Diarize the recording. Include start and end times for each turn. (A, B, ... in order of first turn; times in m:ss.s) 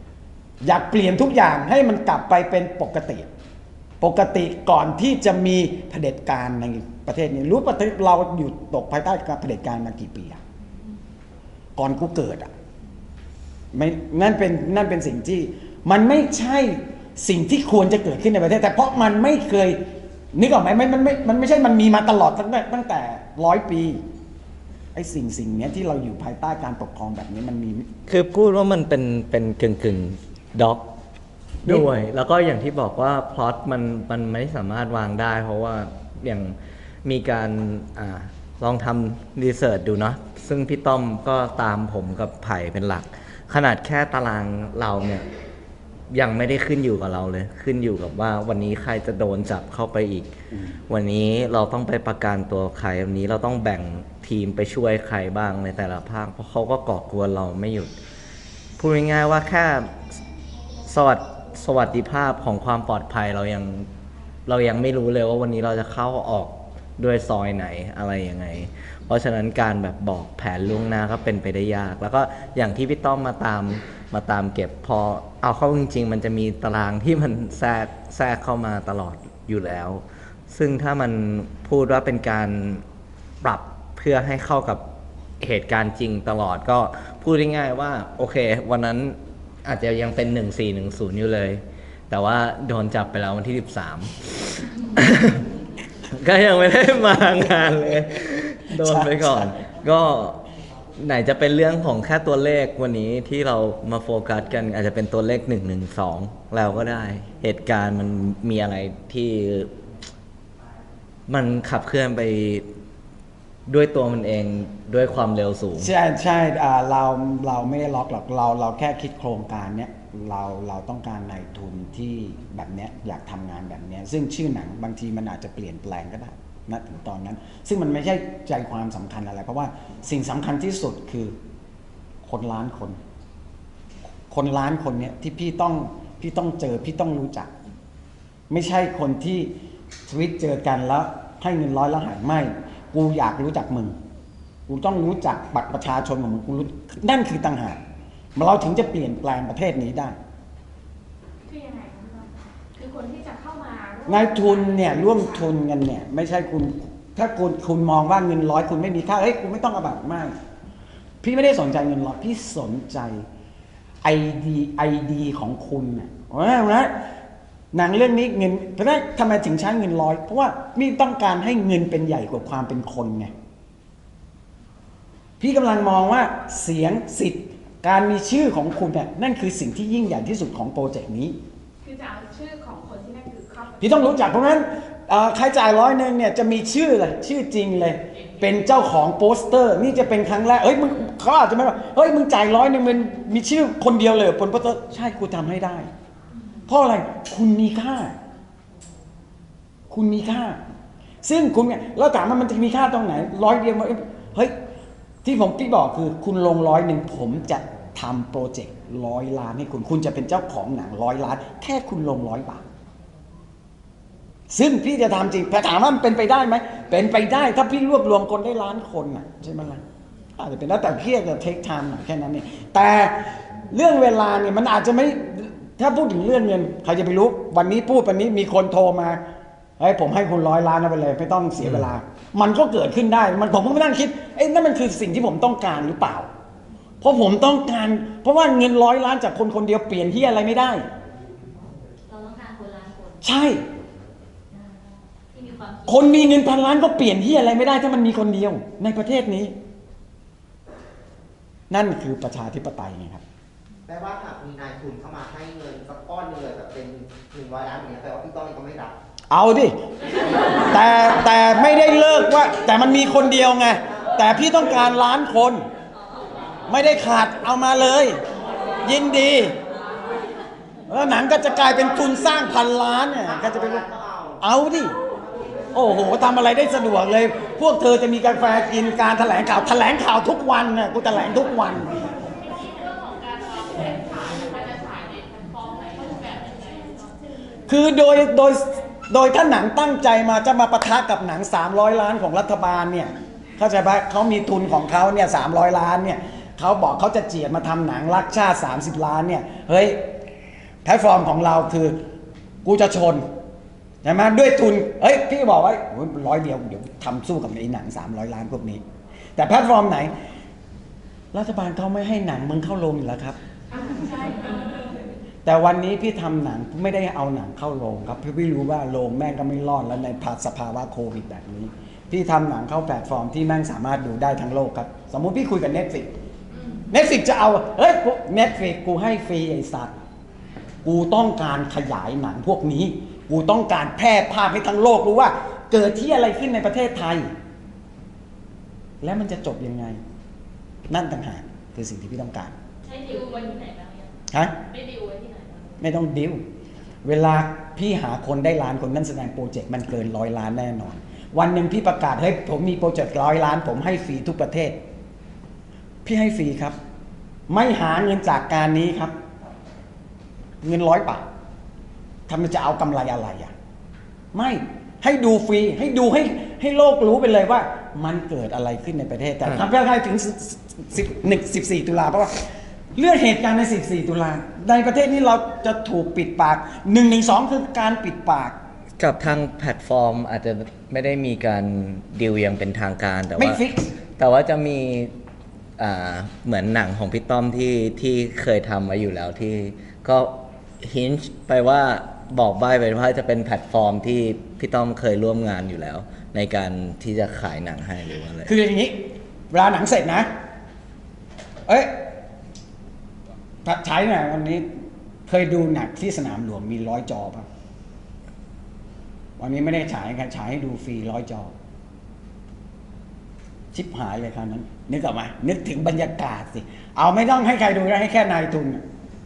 0:00.6-0:03.3 A
0:04.0-0:10.4 A
0:11.8-0:12.5 A
0:13.7-0:19.8 A
0:20.3-0:24.0 A
0:25.0-0:27.9 A
0:28.1-0:30.8 B
0:31.6-0:45.2 B
0:46.1-0:50.4 B
0:50.9-0:57.9 B
0:58.8-0:59.9 B
1:00.9-1:03.9 B
1:04.5-1:22.8 B
1:23.4-1:24.8 B
1:25.4-1:35.5 B
1:36.1-1:40.4 B
1:38.7-1:39.5 A
1:41.0-1:49.7 B
1:51.3-1:52.7 B
1:53.7-1:55.9 B
1:55.8-2:11.4 A
2:12.2-2:13.0 A
2:14.3-2:17.5 A
2:18.5-2:19.5 A
2:20.1-2:24.0 A
2:24.7-2:27.8 A
2:28.4-2:30.2 A
2:31.4-2:35.5 C
2:34.1-2:40.4 A
2:41.2-2:43.2 A
2:44.0-2:46.9 A
2:47.7-2:53.3 A
2:55.4-3:01.4 A
3:01.8-3:04.4 C
3:03.8-3:15.9 A
3:16.7-3:18.2 A
3:19.9-3:20.6 A
3:21.2-3:24.6 A
3:25.2-3:32.7 A
3:34.5-3:39.8 A
3:40.4-3:49.2 A
3:49.8-3:56.3 A
3:57.0-4:00.8 A
4:02.1-4:03.3 D
4:03.2-4:03.6 A
4:05.3-4:06.4 D
4:05.9-4:09.6 A
4:11.7-4:13.2 A
4:13.9-4:19.0 E
4:19.3-4:19.8 A
4:20.6-4:25.7 A
4:26.0-4:26.2 D
4:26.7-4:28.2 A
4:28.8-4:29.6 A
4:30.9-4:33.9 A
4:33.3-4:34.4 E
4:34.4-4:35.0 A
4:35.7-4:42.0 A
4:42.6-4:46.9 D
4:43.4-4:44.5 C
4:47.7-5:00.1 A
5:00.8-5:02.0 A
5:02.6-5:03.3 A
5:04.0-5:08.8 A
5:09.4-5:10.2 A
5:11.3-5:13.4 A
5:13.7-5:14.9 C
5:15.4-5:26.1 A
5:26.5-5:26.9 C
5:26.9-5:29.9 A
5:30.8-5:37.3 A
5:39.0-5:40.0 A
5:40.9-5:42.6 A
5:42.8-5:45.8 D
5:43.0-5:43.5 C
5:44.3-5:44.6 A
5:45.8-5:46.4 A
5:47.0-5:54.8 A
5:56.0-5:56.8 A
5:57.5-5:59.1 A
6:00.6-6:01.3 A
6:02.3-6:03.5 A
6:04.3-6:18.6 A
6:19.0-6:23.6 B
6:23.4-6:24.0 A
6:24.2-6:25.1 B
6:25.8-6:38.5 B
6:38.5-6:40.3 A
6:41.7-6:41.9 A
6:43.6-6:44.7 A
6:45.3-6:47.5 A
6:49.4-6:51.5 A
6:53.7-6:58.8 A